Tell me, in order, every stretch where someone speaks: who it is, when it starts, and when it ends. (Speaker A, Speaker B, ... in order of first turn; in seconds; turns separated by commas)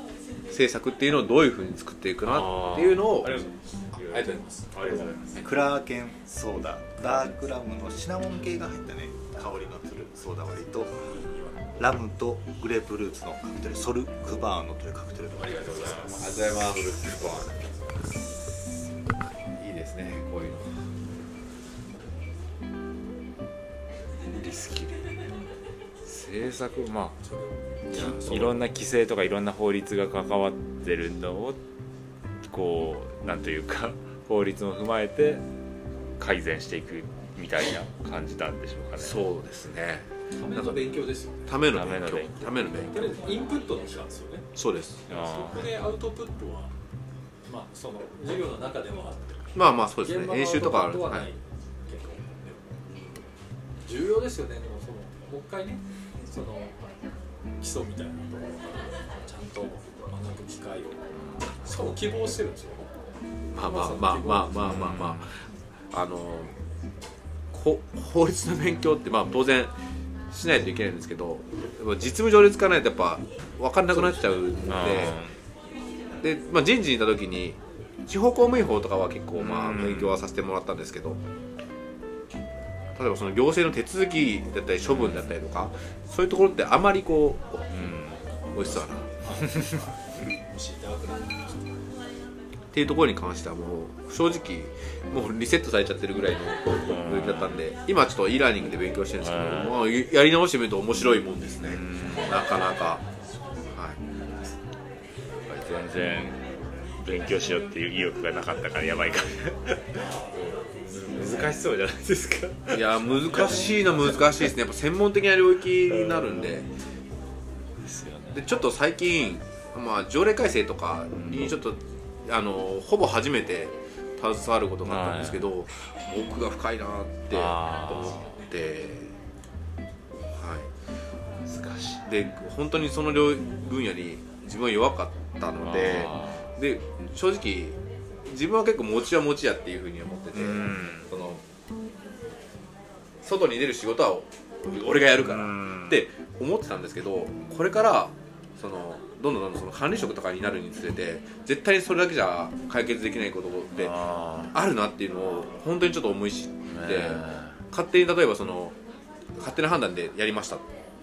Speaker A: 0.5-3.4, Speaker B: 2.2-5.4, Speaker C: 4.0-4.9, Speaker A: 4.0-4.4, Speaker D: 4.9-16.4, Speaker C: 15.4-16.5, Speaker B: 15.4-17.6, Speaker A: 16.2-16.8, Speaker A: 19.4-20.9, Speaker C: 25.2-25.5, Speaker B: 26.0-27.2, Speaker C: 27.2-28.2, Speaker B: 27.9-31.6, Speaker A: 27.9-28.6, Speaker B: 32.5-35.4, Speaker B: 36.2-39.2, Speaker A: 39.0-43.1, Speaker C: 40.3-41.4, Speaker B: 41.6-42.9, Speaker C: 42.9-44.5, Speaker A: 44.5-45.0, Speaker C: 45.1-46.7, Speaker B: 45.1-45.7, Speaker C: 47.5-52.9, Speaker A: 49.5-51.3, Speaker C: 53.8-56.8, Speaker C: 57.6-61.0, Speaker C: 61.6-62.9, Speaker A: 63.5-66.5, Speaker C: 63.6-64.7, Speaker B: 64.5-65.3, Speaker A: 67.5-69.7, Speaker A: 70.3-75.2, Speaker C: 73.9-75.1, Speaker B: 74.7-75.3, Speaker A: 76.2-81.2, Speaker B: 79.3-80.2, Speaker A: 82.9-88.0, Speaker B: 84.8-85.3, Speaker B: 87.7-88.2, Speaker A: 88.5-89.1, Speaker C: 89.2-91.7, Speaker A: 92.7-103.0, Speaker B: 96.8-97.6, Speaker B: 99.2-99.7, Speaker B: 101.6-102.4, Speaker A: 103.7-104.0, Speaker B: 105.5-106.4, Speaker B: 107.0-109.8, Speaker B: 110.4-113.7, Speaker A: 112.7-116.7, Speaker B: 115.9-116.5, Speaker B: 117.8-118.4, Speaker A: 118.3-129.1, Speaker B: 121.2-121.5, Speaker B: 124.8-125.4, Speaker B: 127.3-128.3, Speaker A: 130.3-130.7, Speaker B: 131.4-132.2, Speaker A: 132.1-141.4, Speaker B: 135.6-136.5, Speaker B: 140.3-141.1, Speaker A: 143.2-153.9, Speaker B: 145.2-146.0, Speaker B: 153.8-154.5, Speaker A: 154.5-158.8, Speaker B: 156.7-157.6, Speaker A: 159.4-160.6